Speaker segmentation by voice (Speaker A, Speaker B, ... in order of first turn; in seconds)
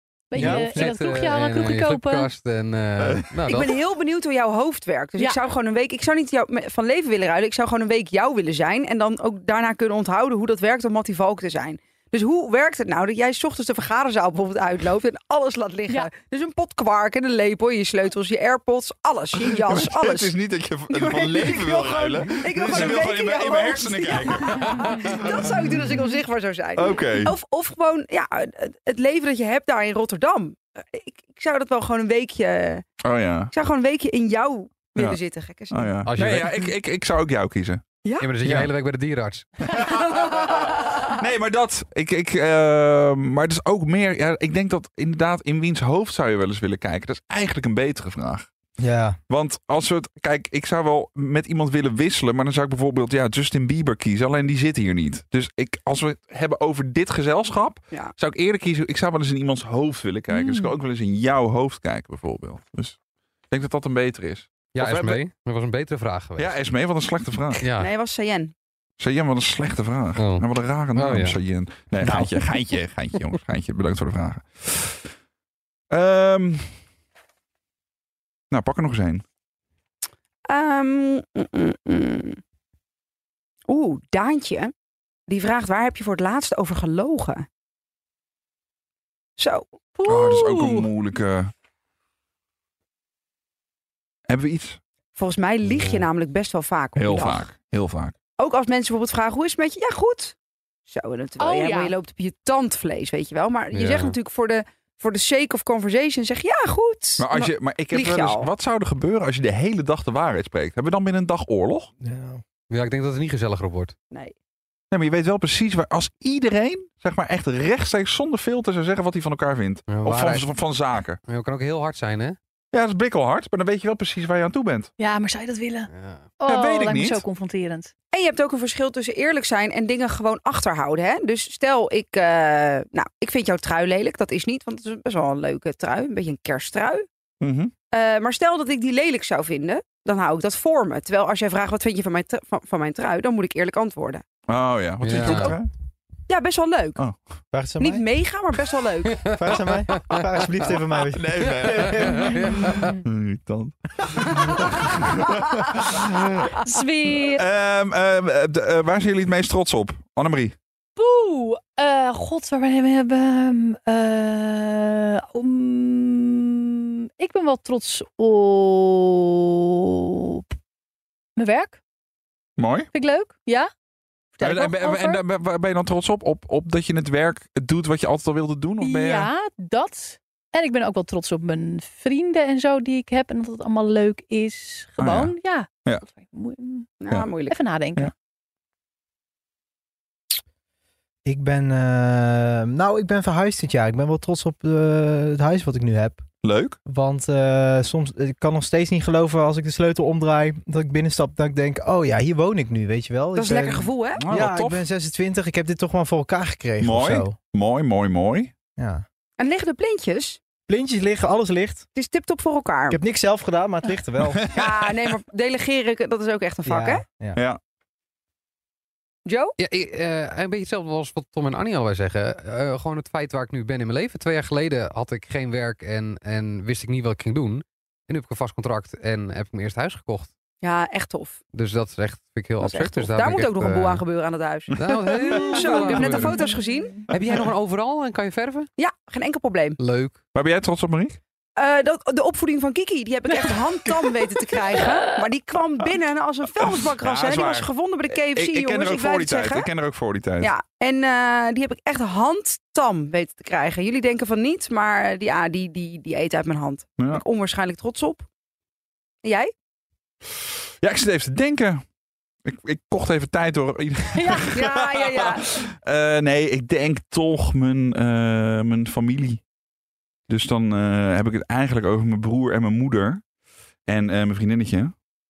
Speaker A: 0.3-2.3, 60.3-60.8, 90.0-90.9, 101.4-101.9, 125.0-127.9, 152.3-152.9, 156.5-157.4, 161.0-170.4, 171.4-171.8, 172.9-173.7, 174.3-175.2, 178.8-186.9, 187.5-188.1, 235.3-237.0, 264.1-264.5
Speaker B: 0.3-3.8, 36.1-36.7, 38.2-39.5, 64.7-66.5, 67.6-67.9, 70.2-71.4, 95.7-96.1, 103.7-104.2, 112.7-113.9, 119.9-120.5, 121.2-122.4, 125.9-126.2, 145.0-145.6, 149.9-150.2, 151.7-152.9, 219.6-230.3, 231.5-234.0, 234.8-236.4, 237.1-238.7, 239.8-240.2
Speaker C: 0.3-1.0, 38.4-38.7, 48.8-49.2, 112.0-112.4, 147.5-148.1, 149.3-152.4, 191.2-196.3, 196.8-207.4, 208.8-209.0, 210.7-211.9, 212.9-214.5, 216.6-217.4
Speaker D: 3.5-20.3, 20.9-32.9, 33.5-35.9, 38.0-38.3, 39.8-41.1, 67.8-68.5, 80.5-82.4, 83.7-84.7, 85.3-87.5, 89.4-89.8, 95.1-97.5, 98.4-100.3, 100.9-108.5, 128.1-137.1, 137.9-144.2, 145.2-145.6, 146.3-147.0, 147.8-149.4, 187.0-187.6, 203.3-204.2, 209.4-210.4, 211.9-213.0, 214.5-217.0, 219.3-219.6, 230.6-231.4, 232.6-237.0, 238.8-239.8, 241.6-249.7, 250.4-258.3, 259.2-259.5, 264.5-265.6
Speaker E: 19.5-25.8, 26.8-27.3, 33.0-33.5, 34.9-37.8, 39.6-40.0, 41.0-48.5, 49.3-63.0, 63.5-65.2, 66.4-67.6, 69.0-75.1, 75.9-76.8, 78.5-79.2, 90.0-91.5, 94.3-94.8, 97.0-98.1, 107.2-111.9, 114.9-121.2, 122.7-124.9, 126.4-127.2, 137.4-137.7, 144.5-145.7, 151.1-156.5, 157.1-160.6, 172.6-172.9, 174.4-179.3, 185.0-185.3, 196.4-196.8, 204.2-204.9, 206.8-208.5, 214.4-214.8, 240.3-241.2, 246.6-250.5, 257.0-257.2, 260.8-261.8, 262.4-269.4, 270.3-273.2, 273.9-274.9